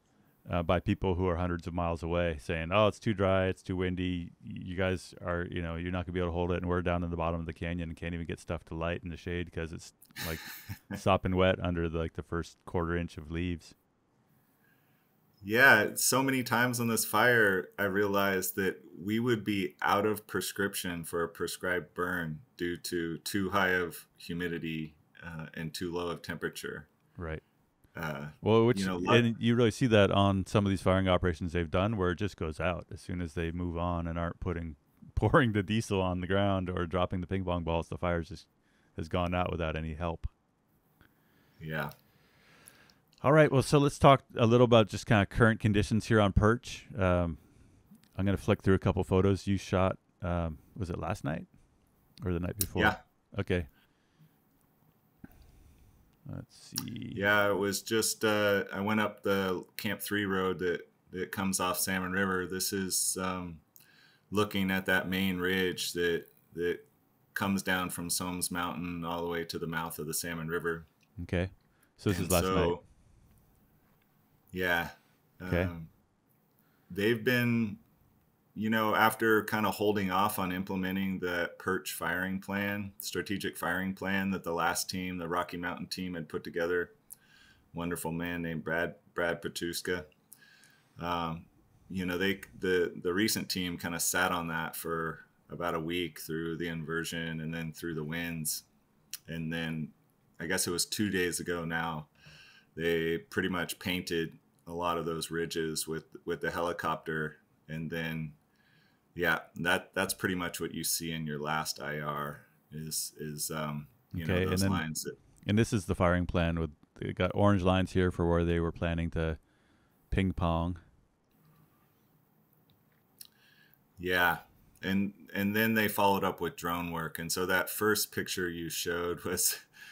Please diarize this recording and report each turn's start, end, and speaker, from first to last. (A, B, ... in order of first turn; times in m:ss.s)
0:00.4-0:13.8 A
0:15.4-0:26.9 B
0:27.2-0:27.4 A
0:27.9-0:29.3 B
0:28.4-0:40.3 A
0:41.6-0:41.9 B
0:43.2-0:53.7 A
0:56.2-0:57.2 A
0:57.1-1:03.6 B
1:04.3-1:10.9 B
1:11.2-1:12.8 A
1:12.1-1:12.9 B
1:14.5-1:15.9 B
1:15.5-1:15.7 A
1:16.9-1:17.8 B
1:18.5-1:26.9 B
1:27.7-1:30.1 B
1:31.0-1:38.6 B
1:39.3-1:42.1 B
1:42.8-1:48.4 B
1:49.1-1:55.2 B
1:54.1-1:54.8 A
1:55.4-1:59.4 A
2:00.1-2:00.8 A
2:04.0-2:09.6 B